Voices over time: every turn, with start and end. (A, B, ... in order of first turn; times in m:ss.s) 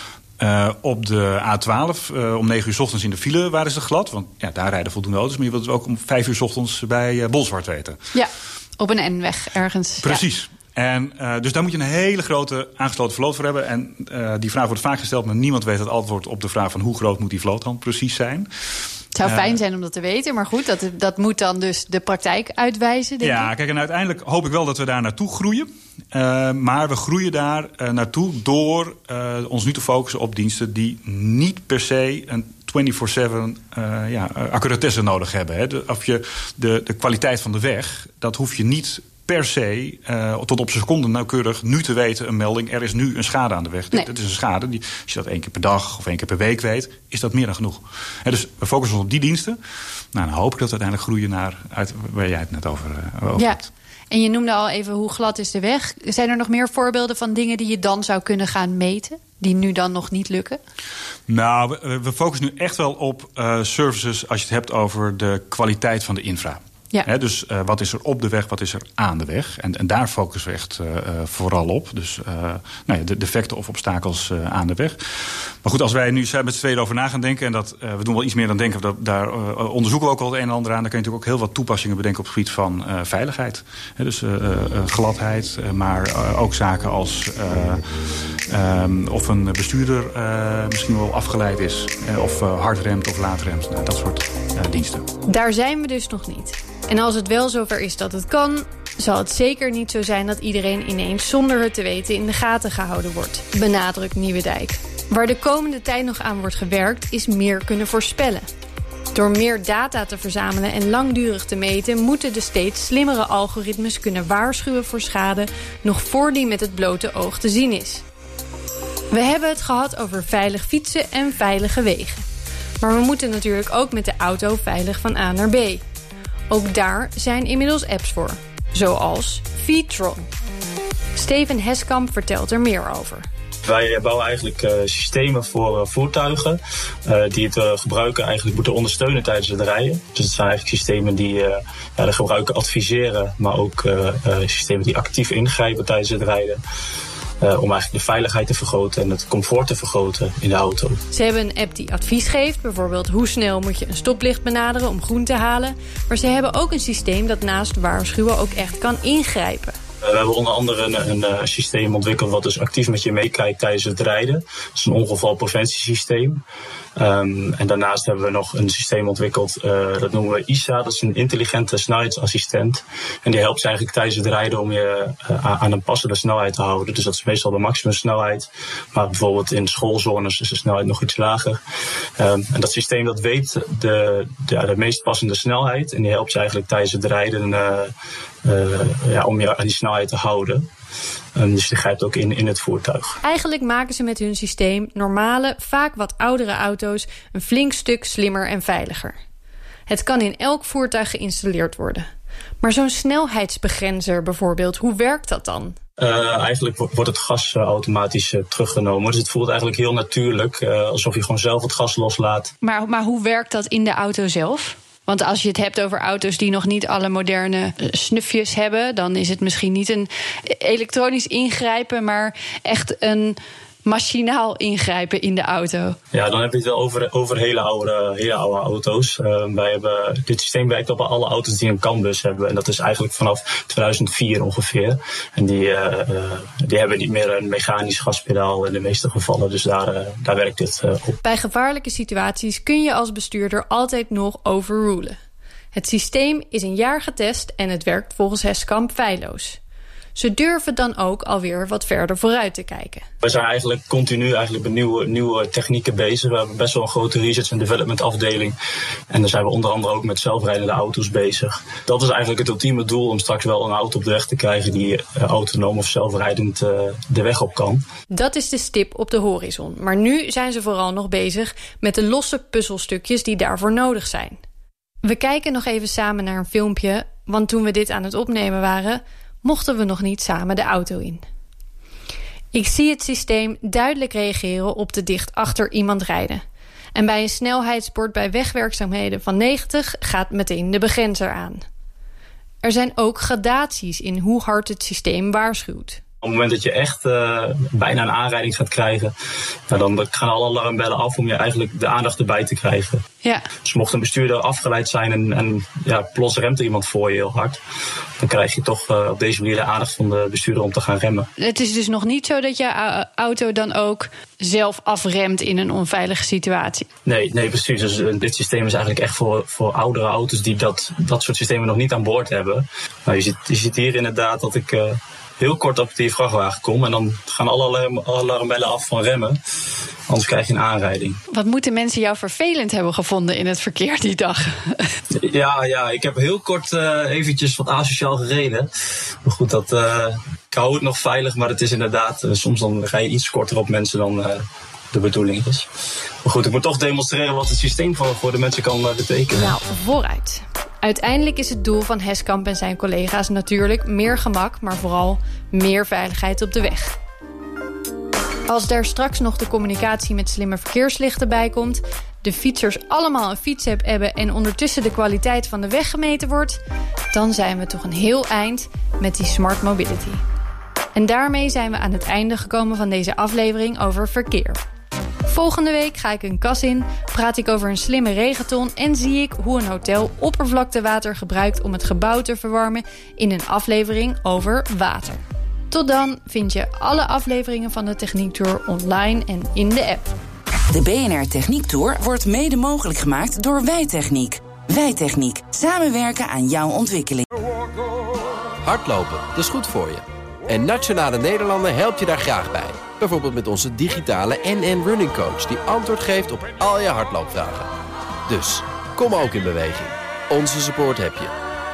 0:00.4-0:08.0 A
0:08.1-0:10.2 B
0:10.0-0:18.5 A
0:19.1-0:23.5 B
0:19.2-0:19.6 A
0:23.2-0:49.6 A
0:50.1-0:53.7 A
0:53.3-1:00.6 B
1:01.3-1:35.1 A
1:35.3-1:48.5 C
1:49.1-1:58.0 C
1:59.1-2:02.2 C
2:02.8-2:05.8 C
2:06.5-2:10.3 C
2:11.1-2:13.3 C
2:13.7-2:26.6 D
2:27.4-2:31.0 D
2:31.1-2:39.8 C
2:40.0-2:46.4 D
2:47.0-3:01.6 D
3:02.2-3:07.9 D
3:08.4-3:10.6 D
3:11.4-3:13.2 D
3:13.2-3:19.2 C
3:19.9-3:22.1 C
3:22.6-3:25.8 C
3:26.0-3:32.5 D
3:32.6-3:46.0 B
3:46.1-4:01.2 D
4:01.2-4:05.2 C
4:05.7-4:09.6 C
4:10.1-4:13.0 C
4:13.2-4:18.5 D
4:19.1-4:27.8 D
4:28.1-4:34.4 C
4:35.0-4:41.2 C
4:42.5-4:46.4 C
4:46.9-4:51.6 C
4:52.6-4:56.0 C
4:56.2-4:59.1 D
4:59.7-5:03.0 D
5:03.2-5:03.5 B
5:03.6-5:07.6 D
5:08.2-5:11.3 D
5:11.4-5:16.9 B
5:17.0-5:29.4 D
5:30.1-5:31.2 D
5:31.3-5:35.0 B
5:35.1-5:38.7 D
5:39.2-5:45.7 D
5:46.2-5:49.6 D
5:49.4-5:56.9 C
5:58.5-6:06.6 C
6:07.1-6:10.2 C
6:10.9-6:14.6 C
6:15.3-6:30.1 C
6:30.7-6:37.2 E
6:38.6-6:47.7 F
6:48.3-6:51.3 F